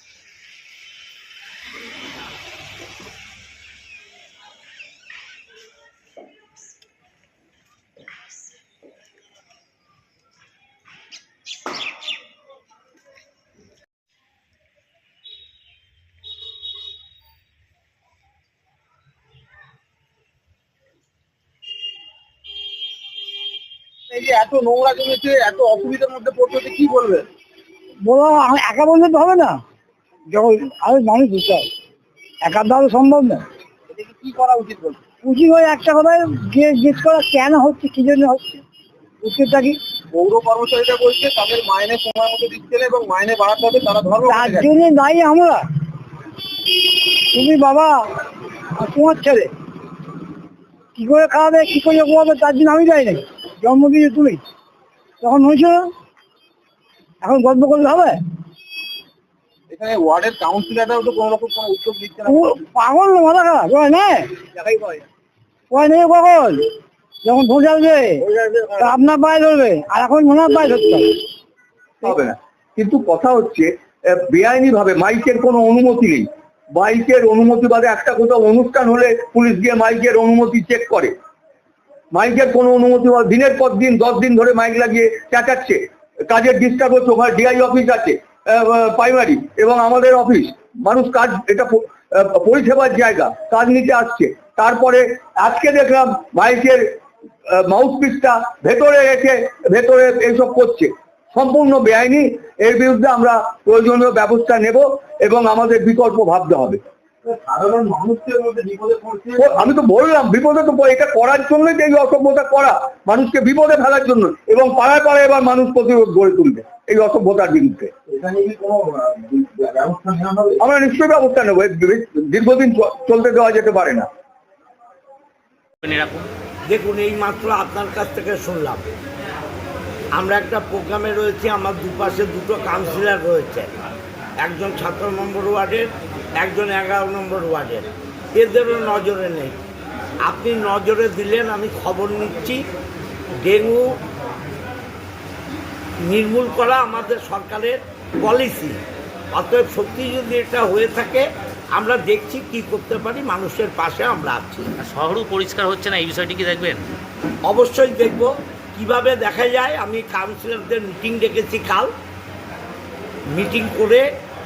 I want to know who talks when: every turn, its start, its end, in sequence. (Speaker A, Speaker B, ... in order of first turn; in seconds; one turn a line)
Speaker A: 24.1-27.3
Speaker B: 28.1-29.5
Speaker B: 30.3-31.6
Speaker B: 32.5-33.4
Speaker A: 33.9-35.0
Speaker B: 35.2-38.6
Speaker B: 39.2-39.8
Speaker A: 40.1-44.7
Speaker B: 44.3-45.6
Speaker B: 47.3-48.0
Speaker B: 48.8-49.5
Speaker B: 51.0-54.4
Speaker B: 55.2-55.8
Speaker B: 57.2-58.2
Speaker A: 59.7-62.6
Speaker B: 62.3-64.2
Speaker A: 64.6-65.0
Speaker B: 65.7-66.6
Speaker B: 67.2-68.2
Speaker A: 68.3-69.0
Speaker B: 68.8-71.1
Speaker C: 72.0-81.1
Speaker C: 82.1-96.8
Speaker C: 97.5-106.8
Speaker A: 107.2-109.7
Speaker C: 109.4-117.9
Speaker A: 118.1-120.6
Speaker C: 120.6-124.1
Speaker D: 125.8-126.3
Speaker E: 126.7-128.8
Speaker E: 130.2-133.7
Speaker E: 134.4-135.9
Speaker E: 136.4-139.6
Speaker E: 140.2-142.6
Speaker E: 143.4-143.8
Speaker E: 146.1-148.8
Speaker E: 149.3-154.7
Speaker D: 154.8-156.8
Speaker E: 157.5-161.9
Speaker E: 163.3-164.1